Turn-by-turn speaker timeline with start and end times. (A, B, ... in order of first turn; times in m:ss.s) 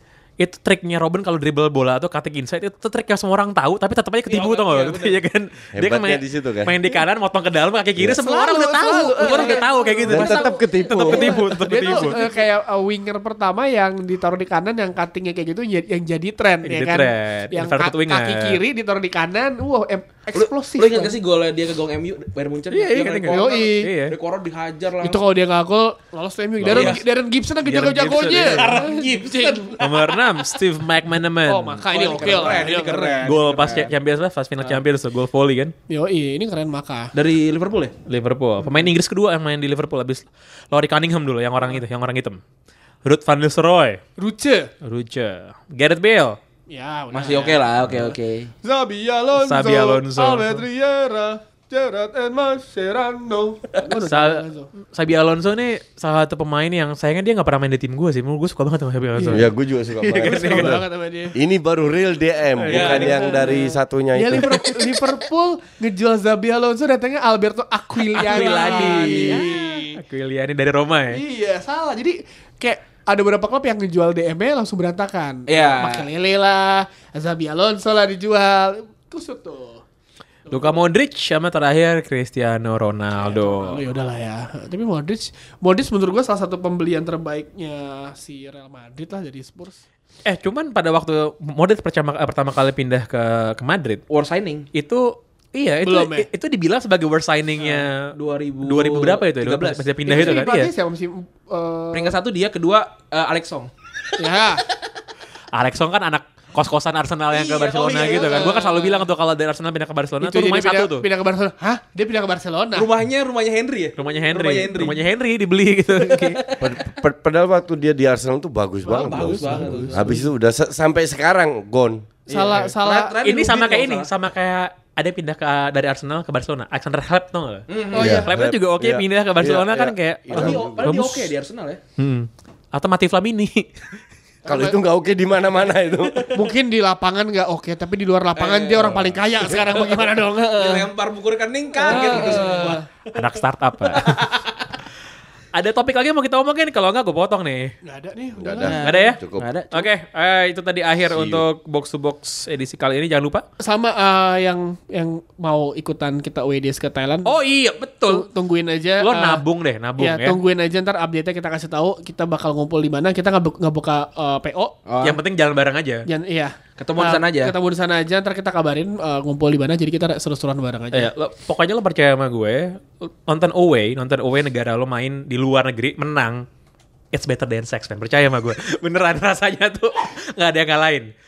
0:00.4-0:12.2 A
0:04.3-0:05.2 B
0:05.7-0:06.8 C
0:08.1-0:21.1 D
0:09.0-0:10.8 B
0:10.0-0:11.4 C
0:11.7-0:12.4 B
0:16.6-0:18.6 A
0:20.3-0:25.2 B
0:22.7-0:24.2 A
0:23.3-0:23.9 D
0:25.0-0:30.1 D
0:26.6-0:27.0 A
0:26.7-0:27.0 B
0:27.6-0:35.7 A
0:28.5-0:29.8 B
0:31.5-0:33.4 D
0:31.9-0:33.9 B
0:35.9-0:37.1 D
0:37.1-0:37.9 B
0:38.0-0:42.4 A
0:43.0-0:44.0 A
0:44.2-0:44.7 D
0:44.8-0:46.4 A
0:46.7-0:54.7 D
0:47.1-0:48.5 B
0:49.4-0:50.6 A
0:54.0-0:59.5 A
0:59.2-0:59.4 D
0:59.3-1:04.6 C
1:00.0-1:00.8 A
1:00.1-1:01.4 D
1:02.6-1:03.3 A
1:02.7-1:03.1 B
1:02.7-1:10.0 D
1:08.1-1:11.2 A
1:08.2-1:09.5 B
1:11.1-1:19.8 D
1:15.5-1:16.1 B
1:20.4-1:20.8 D
1:20.5-1:23.8 A
1:23.2-1:29.8 D
1:30.2-1:34.0 A
1:34.1-1:34.7 B
1:34.7-1:40.7 A
1:35.8-1:36.3 D
1:37.6-1:40.4 B
1:40.0-1:42.2 D
1:41.9-1:43.7 B
1:44.2-1:44.6 D
1:45.5-1:51.1 A
1:47.3-1:48.7 B
1:48.2-1:49.0 D
1:50.2-1:52.9 D
1:52.7-1:55.0 B
1:54.0-1:56.4 A
1:56.1-1:56.7 B
1:56.6-2:02.1 C
1:58.8-2:00.2 B
1:59.1-1:59.9 D
2:02.3-2:04.1 B
2:02.3-2:03.2 D
2:03.2-2:11.3 A
2:07.7-2:08.1 B
2:07.9-2:08.3 D
2:07.9-2:10.9 C
2:10.3-2:11.8 B
2:12.0-2:14.0 A
2:14.4-2:16.3 C
2:14.5-2:14.8 D
2:16.3-2:20.9 D
2:18.4-2:20.0 B
2:20.6-2:22.8 B
2:21.8-2:22.8 D
2:21.9-2:24.2 A
2:24.0-2:24.4 B
2:25.5-2:27.7 A
2:27.8-2:28.8 D
2:28.4-2:29.5 C
2:28.6-2:29.9 B
2:28.8-2:29.2 A
2:29.7-2:33.4 A
2:31.1-2:31.4 C
2:33.6-2:37.3 D
2:37.2-2:38.3 A
2:38.1-2:39.4 D
2:39.0-2:40.4 A
2:40.0-2:44.8 D
2:44.8-2:45.2 B
2:45.0-2:46.0 A
2:46.1-2:51.1 D
2:46.8-2:47.5 B
2:50.9-2:56.4 A
2:57.1-3:01.1 A